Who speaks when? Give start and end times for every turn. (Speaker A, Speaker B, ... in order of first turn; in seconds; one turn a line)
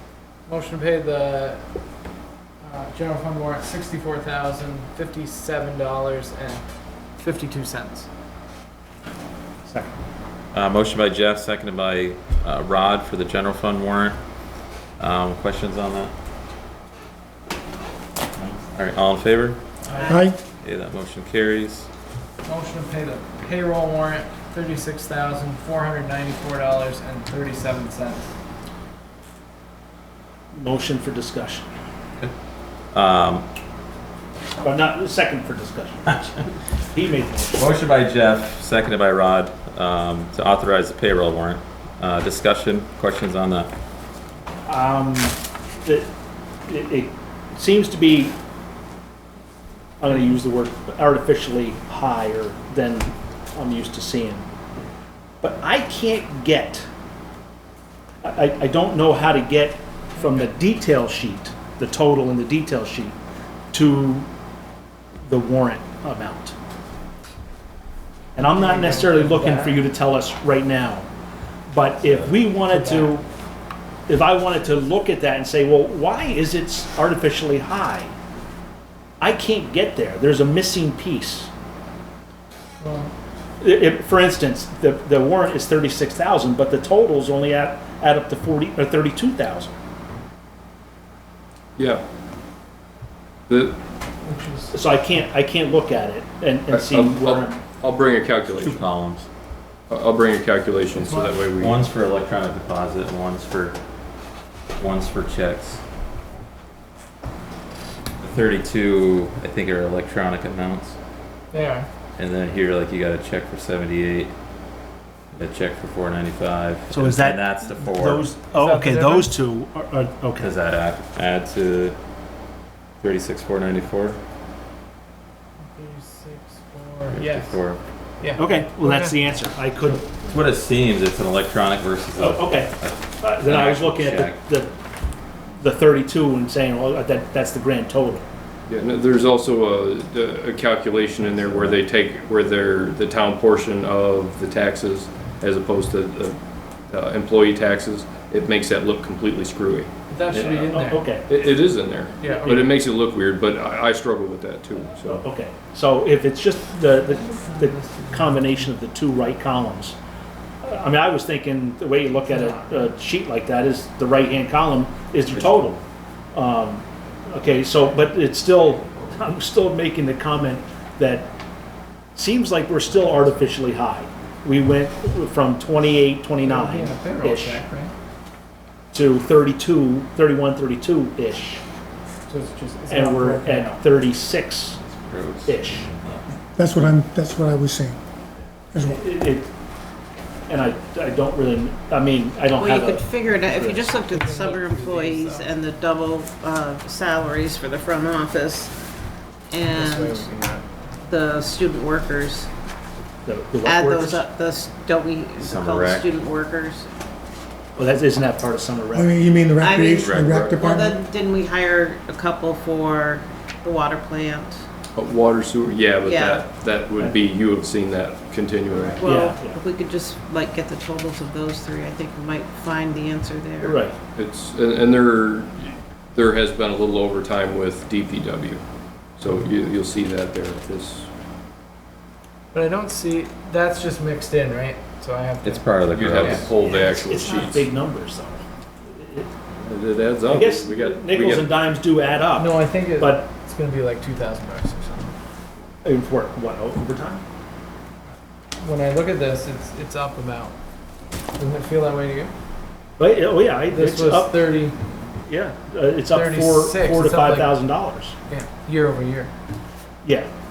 Speaker A: 0.5-1.6
Speaker A: 2.6-6.6
Speaker A: 7.2-8.1
Speaker B: 9.7-9.9
Speaker C: 10.5-14.2
Speaker C: 15.0-16.1
Speaker C: 18.4-19.6
Speaker A: 19.9-20.3
Speaker D: 19.9-20.2
Speaker E: 20.1-20.4
Speaker C: 20.6-21.9
Speaker A: 22.4-28.3
Speaker B: 30.5-31.7
Speaker C: 32.9-33.5
Speaker B: 34.6-36.3
Speaker B: 36.9-37.7
Speaker C: 37.6-43.7
Speaker B: 44.7-46.1
Speaker B: 46.7-48.4
Speaker B: 50.0-54.5
Speaker B: 55.4-56.9
Speaker B: 58.2-63.2
Speaker A: 60.2-60.5
Speaker B: 63.7-64.3
Speaker B: 65.2-66.5
Speaker B: 68.3-71.1
Speaker A: 68.4-69.8
Speaker B: 71.7-73.3
Speaker C: 72.0-72.3
Speaker A: 72.6-73.2
Speaker B: 74.1-78.1
Speaker B: 79.2-81.5
Speaker A: 82.8-83.1
Speaker B: 83.6-89.8
Speaker F: 91.8-92.0
Speaker F: 93.5-93.8
Speaker A: 94.2-94.8
Speaker B: 94.7-97.6
Speaker F: 96.7-98.8
Speaker C: 98.6-99.3
Speaker F: 99.9-101.8
Speaker A: 101.0-101.3
Speaker C: 101.6-103.8
Speaker C: 104.8-105.8
Speaker C: 108.2-111.0
Speaker A: 111.5-111.9
Speaker C: 112.2-114.3
Speaker C: 115.3-118.3
Speaker B: 116.9-120.5
Speaker A: 118.5-119.3
Speaker C: 120.3-122.0
Speaker C: 123.0-124.2
Speaker A: 125.7-127.6
Speaker C: 127.1-127.8
Speaker A: 128.2-129.2
Speaker B: 128.4-130.0
Speaker C: 129.9-134.4
Speaker B: 132.2-134.7
Speaker B: 135.6-138.3
Speaker F: 138.7-146.4
Speaker C: 141.4-141.8
Speaker F: 146.9-149.9
Speaker A: 150.1-151.1
Speaker B: 150.3-151.3
Speaker F: 151.3-155.2
Speaker A: 152.2-152.7
Speaker B: 155.1-160.0
Speaker A: 157.1-158.6
Speaker B: 160.6-165.8
Speaker A: 162.3-162.9
Speaker B: 166.3-171.3
Speaker B: 172.2-177.6
Speaker A: 176.4-177.9
Speaker B: 178.9-181.6
Speaker A: 182.3-183.8
Speaker B: 182.9-184.8
Speaker C: 184.8-186.3
Speaker B: 185.5-185.9
Speaker E: 186.6-188.0
Speaker B: 188.9-189.5
Speaker B: 190.5-193.8
Speaker D: 192.4-198.7
Speaker A: 193.5-195.5
Speaker D: 199.5-200.3
Speaker A: 199.7-200.7
Speaker D: 201.1-202.5
Speaker B: 203.2-204.3
Speaker D: 203.6-206.9
Speaker C: 205.4-206.1
Speaker B: 207.8-209.3
Speaker E: 208.9-211.0
Speaker D: 209.6-214.6
Speaker C: 209.9-210.3
Speaker F: 210.2-210.6
Speaker F: 214.9-219.1
Speaker D: 216.0-216.5
Speaker D: 218.9-223.8
Speaker B: 219.0-219.6
Speaker B: 223.6-223.9
Speaker F: 224.2-228.6
Speaker F: 229.2-231.1
Speaker A: 232.5-235.7
Speaker C: 235.4-236.5
Speaker F: 235.9-237.7
Speaker A: 236.2-236.5
Speaker B: 236.6-239.3
Speaker F: 239.6-241.7
Speaker B: 240.3-243.3
Speaker A: 242.4-245.2
Speaker B: 245.8-247.2
Speaker A: 248.6-250.6
Speaker A: 251.3-252.3
Speaker B: 253.0-254.4
Speaker A: 253.7-254.8
Speaker B: 255.3-258.1
Speaker A: 256.1-257.6
Speaker A: 258.3-259.3
Speaker B: 260.0-260.3